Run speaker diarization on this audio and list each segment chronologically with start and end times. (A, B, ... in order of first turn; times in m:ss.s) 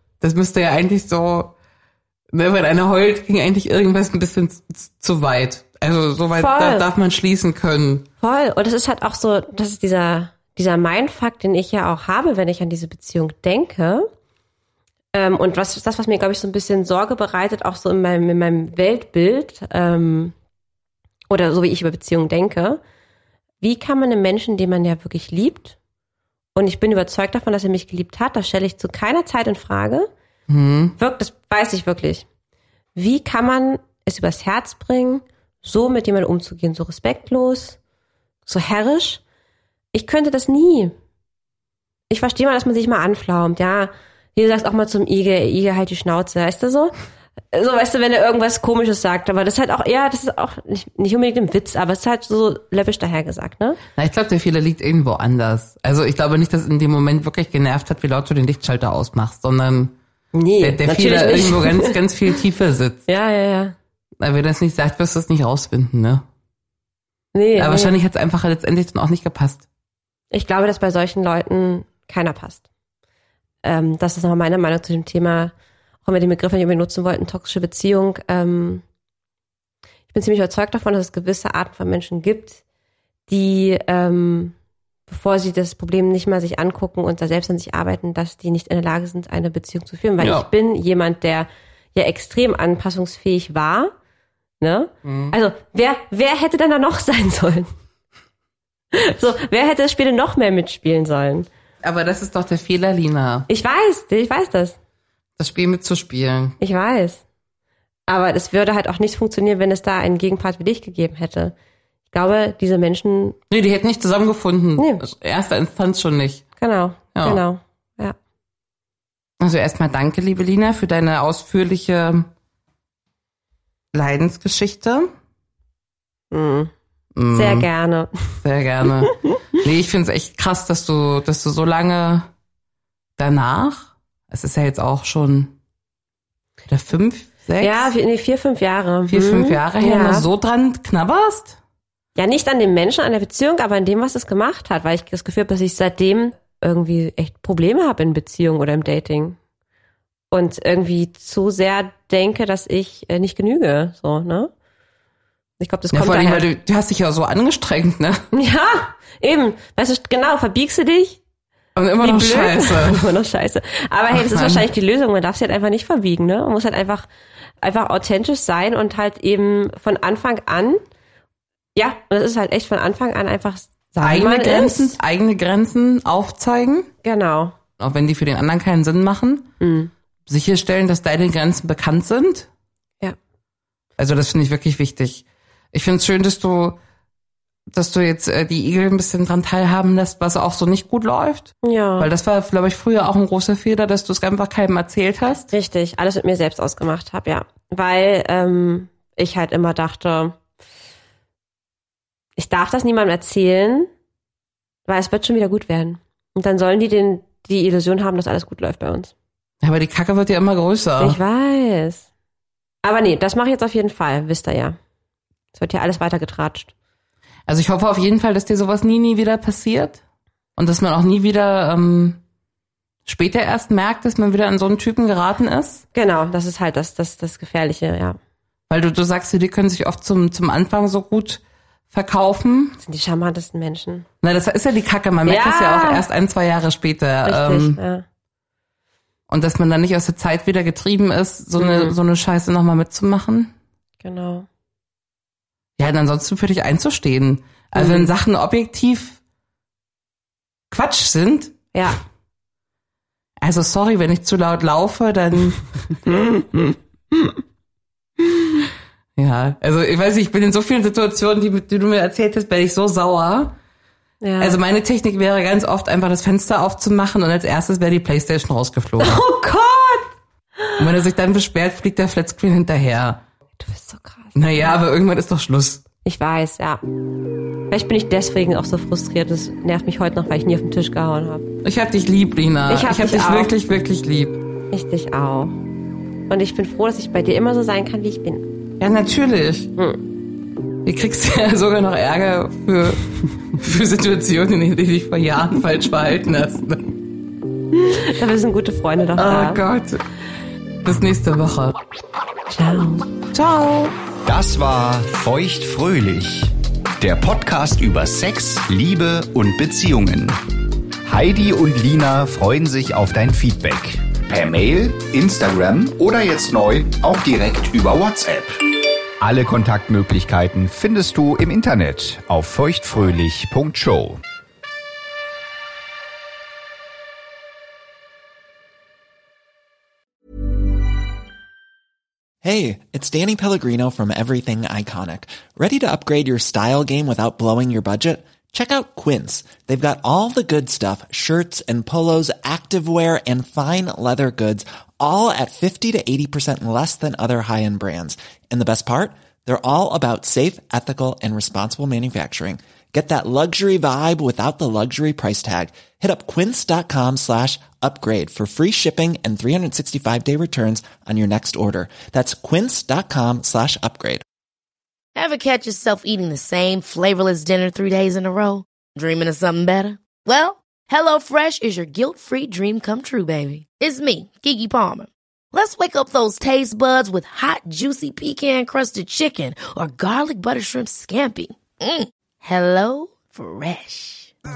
0:00.2-0:01.5 A
0:02.3-0:08.1 A
0:06.3-0:06.9 B
0:08.2-0:14.1 B
0:15.1-0:20.4 B
0:21.3-0:22.8 B
0:23.6-0:25.8 B
0:26.6-0:30.1 B
0:30.5-0:31.0 A
0:31.0-0:32.2 B
0:33.0-0:37.8 B
0:38.5-0:39.2 B
0:39.9-0:41.0 B
0:42.1-0:46.9 B
0:47.5-0:53.8 B
0:54.0-1:00.0 A
1:00.3-1:02.0 B
1:00.6-1:03.0 A
1:03.1-1:03.8 B
1:04.2-1:06.2 A
1:07.3-1:08.0 B
1:07.6-1:09.6 A
1:10.3-1:12.6 B
1:13.6-1:15.5 B
1:16.0-1:18.8 B
1:20.1-1:22.6 B
1:23.3-1:24.6 B
1:25.1-1:33.9 B
1:30.2-1:30.5 A
1:34.6-1:37.7 B
1:35.0-1:35.4 A
1:38.9-1:41.5 B
1:41.8-1:43.5 A
1:43.5-1:44.8 B
1:45.4-1:46.6 A
1:46.6-1:47.2 B
1:48.1-1:51.5 B
1:52.1-1:53.4 B
1:53.5-1:56.5 A
1:54.8-1:55.1 B
1:56.6-1:58.2 B
1:57.2-1:57.4 A
1:59.4-2:02.3 A
2:03.9-2:05.1 A
2:06.3-2:06.7 B
2:07.2-2:07.7 A
2:07.3-2:08.4 B
2:08.4-2:12.3 A
2:13.2-2:15.6 A
2:16.7-2:17.9 A
2:17.6-2:20.3 B
2:19.1-2:21.6 A
2:22.2-2:29.4 B
2:30.3-2:34.5 B
2:35.6-2:36.5 B
2:35.9-2:38.3 A
2:38.3-2:41.2 B
2:41.8-2:43.1 A
2:42.0-2:47.1 B
2:44.1-2:44.7 A
2:47.6-2:50.8 B
2:51.8-2:55.0 B
2:54.0-2:56.9 A
2:57.0-2:57.6 B
2:57.8-2:59.5 A
2:59.6-2:59.9 B
3:00.3-3:02.5 A
3:04.0-3:06.8 A
3:07.7-3:15.5 A
3:11.6-3:12.1 B
3:15.5-3:20.4 B
3:22.4-3:23.9 B
3:24.9-3:29.1 B
3:29.6-3:31.2 A
3:31.0-3:32.1 B
3:32.8-3:34.8 B
3:35.6-3:36.7 B
3:37.5-3:40.0 A
3:40.6-3:42.2 A
3:43.0-3:45.8 A
3:45.9-3:48.2 B
3:48.7-3:52.8 A
3:52.8-3:54.1 B
3:54.2-3:57.8 A
3:55.3-3:56.0 B
3:57.2-3:58.0 B
3:59.3-4:03.5 A
4:01.6-4:02.0 B
4:04.0-4:04.5 B
4:05.8-4:09.2 A
4:07.8-4:08.1 B
4:10.7-4:11.6 A
4:11.7-4:12.0 B
4:13.4-4:17.3 A
4:18.2-4:23.6 A
4:24.2-4:24.6 B
4:24.4-4:29.2 A
4:29.0-4:30.1 B
4:30.8-4:33.2 A
4:33.6-4:34.4 B
4:34.4-4:35.8 A
4:36.0-4:36.8 B
4:37.7-4:41.5 B
4:41.6-4:44.4 A
4:42.7-4:43.5 B
4:44.7-4:45.6 B
4:46.3-4:48.5 B
4:48.8-4:49.7 A
4:49.8-4:50.0 B
4:50.8-4:57.0 A
4:57.9-4:59.6 B
4:59.2-5:00.0 A
5:00.8-5:01.8 A
5:02.5-5:03.1 B
5:03.3-5:03.9 A
5:04.2-5:10.3 C
5:11.0-5:18.6 C
5:19.2-5:24.2 C
5:32.4-6:04.2 D
6:05.2-6:24.3 E